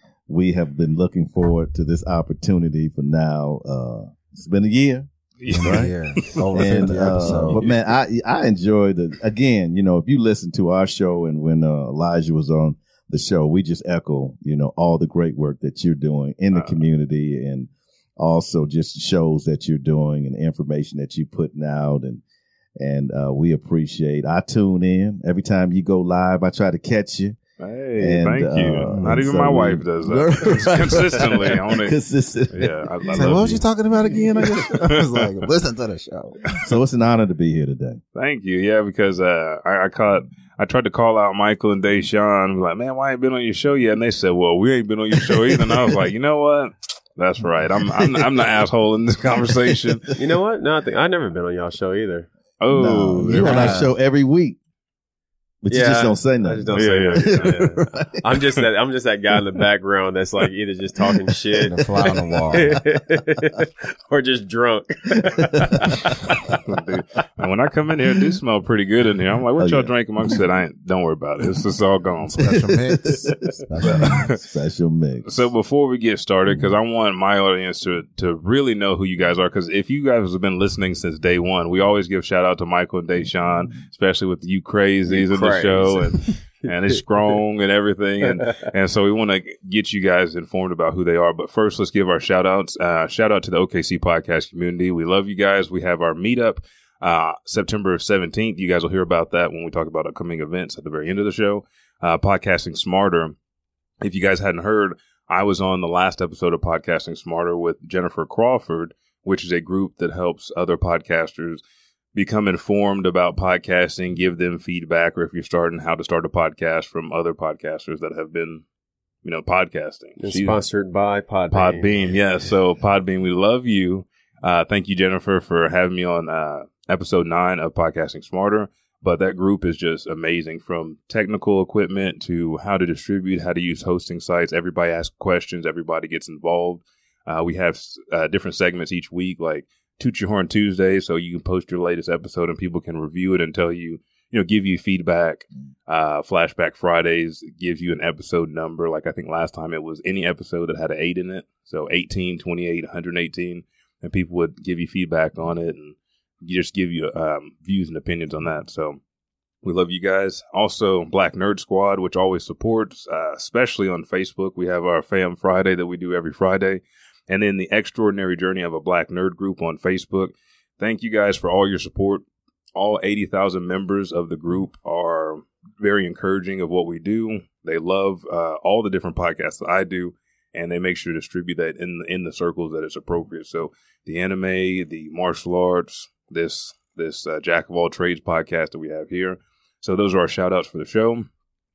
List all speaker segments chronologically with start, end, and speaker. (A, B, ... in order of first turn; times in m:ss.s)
0:00.3-0:05.9 A
0:05.4-0:07.8 B
0:05.5-0:07.6 C
0:06.5-0:22.2 A
0:16.5-0:16.9 B
0:22.8-0:27.4 A
0:27.6-0:32.0 B
0:28.0-0:33.5 A
0:28.9-0:29.2 C
0:32.5-0:33.6 B
0:33.1-0:36.4 C
0:34.5-0:35.2 B
0:36.6-0:38.0 A
0:38.2-0:50.2 B
0:50.2-0:52.3 D
0:52.6-0:53.8 B
0:52.7-0:54.6 A
0:53.2-0:53.9 C
0:55.6-0:58.2 A
0:55.7-1:06.4 D
0:56.7-0:57.6 B
1:01.6-1:02.8 C
1:06.7-1:12.6 B
1:09.6-1:09.9 A
1:12.3-1:14.3 C
1:13.8-1:14.4 B
1:13.8-1:15.4 A
1:15.2-1:43.4 B
1:25.1-1:26.2 D
1:28.3-1:28.6 D
1:44.0-1:51.6 B
1:52.2-1:58.6 B
1:59.2-2:00.6 B
2:00.2-2:02.1 D
2:01.5-2:39.0 B
2:39.6-3:11.3 B